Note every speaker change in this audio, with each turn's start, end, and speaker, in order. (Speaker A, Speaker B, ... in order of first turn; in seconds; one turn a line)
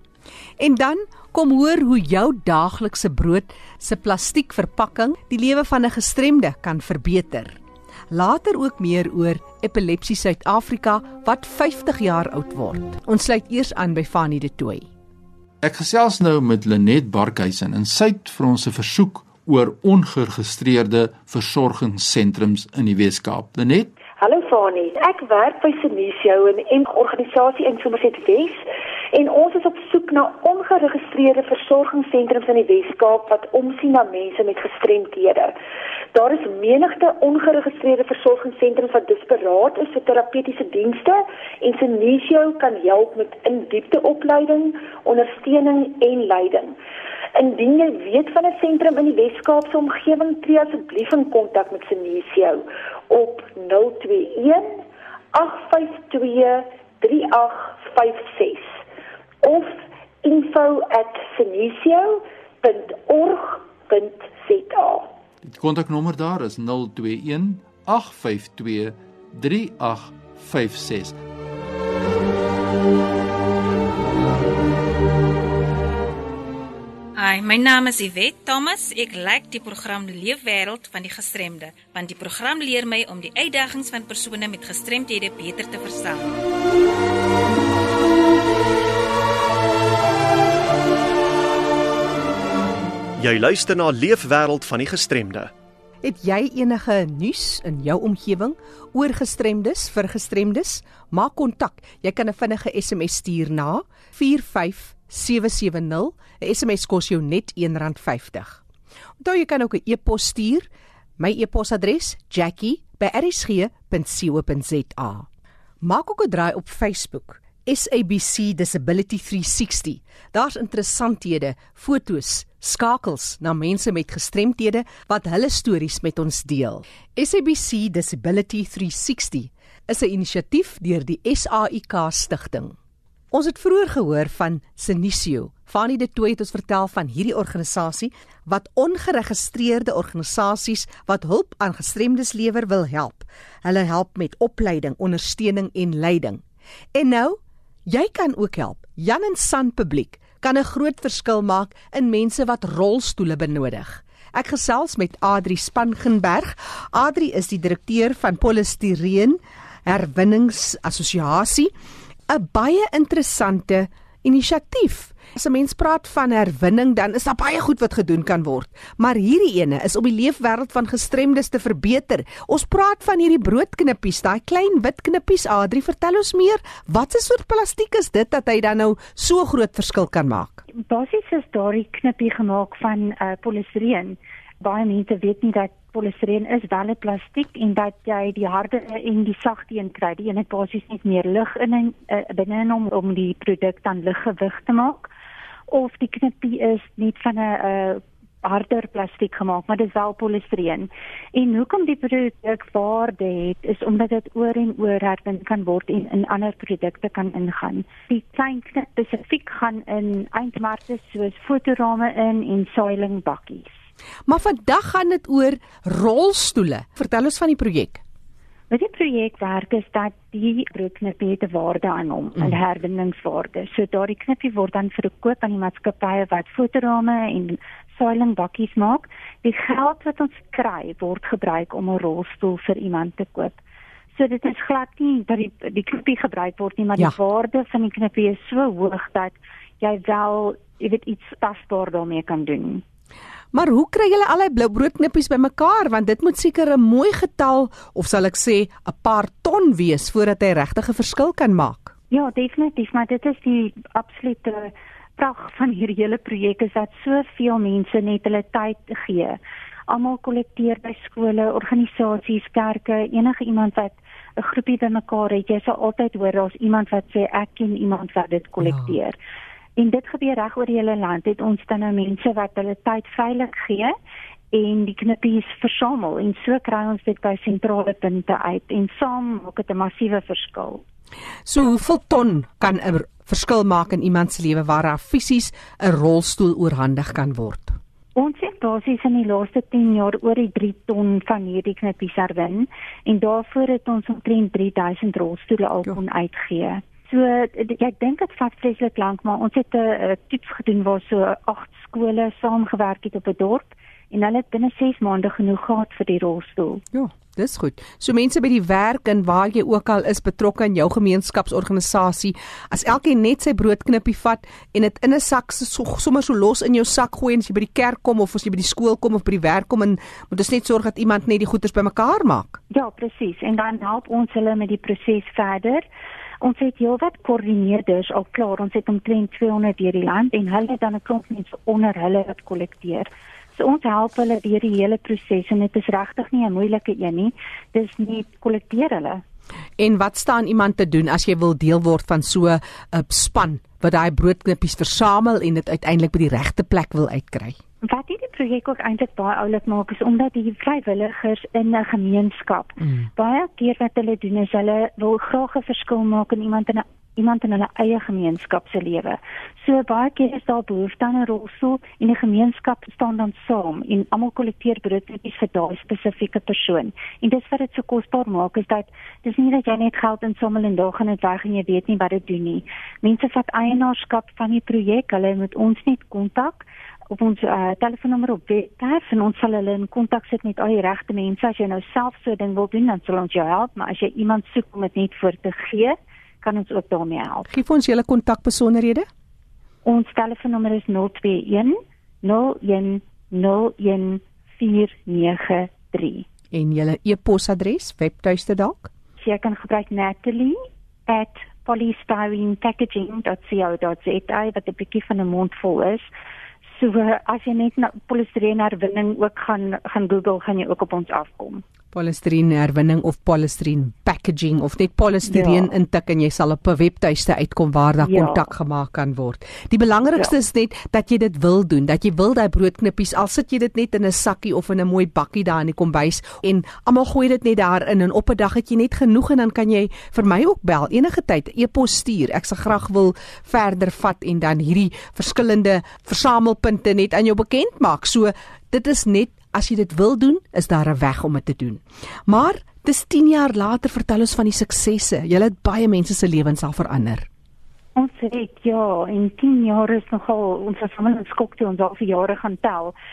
Speaker A: 0.6-7.6
Speaker A: 8.1-14.9
Speaker B: 15.6-23.9
Speaker C: 24.2-35.5
Speaker C: 36.1-46.8
Speaker C: 47.3-58.8
Speaker C: 59.4-65.1
Speaker B: 65.4-71.2
Speaker D: 77.2-86.3
Speaker E: 93.2-95.5
Speaker A: 96.0-108.6
Speaker A: 109.2-110.7
Speaker A: 111.2-115.3
Speaker A: 115.8-132.8
Speaker A: 133.3-146.4
Speaker A: 146.9-161.7
Speaker A: 162.3-180.6
Speaker F: 180.8-195.1
Speaker F: 195.7-213.7
Speaker A: 214.3-218.0
Speaker F: 218.7-233.6
Speaker F: 234.1-242.8
Speaker A: 243.5-251.9
Speaker F: 252.1-269.2
Speaker A: 268.6-269.0
Speaker F: 269.8-273.9
Speaker F: 274.5-280.8
Speaker A: 281.5-287.8
Speaker F: 288.1-306.8
Speaker A: 306.9-322.6
Speaker F: 322.7-325.9
Speaker F: 326.4-339.2
Speaker A: 339.8-347.6
Speaker F: 347.8-387.5
Speaker A: 352.8-353.1
Speaker A: 387.5-389.1
Speaker F: 389.8-396.3
Speaker A: 396.5-398.9
Speaker F: 399.2-406.1
Speaker F: 406.8-411.6
Speaker A: 411.9-447.3
Speaker F: 415.3-415.7
Speaker F: 418.0-418.5
Speaker F: 448.0-452.9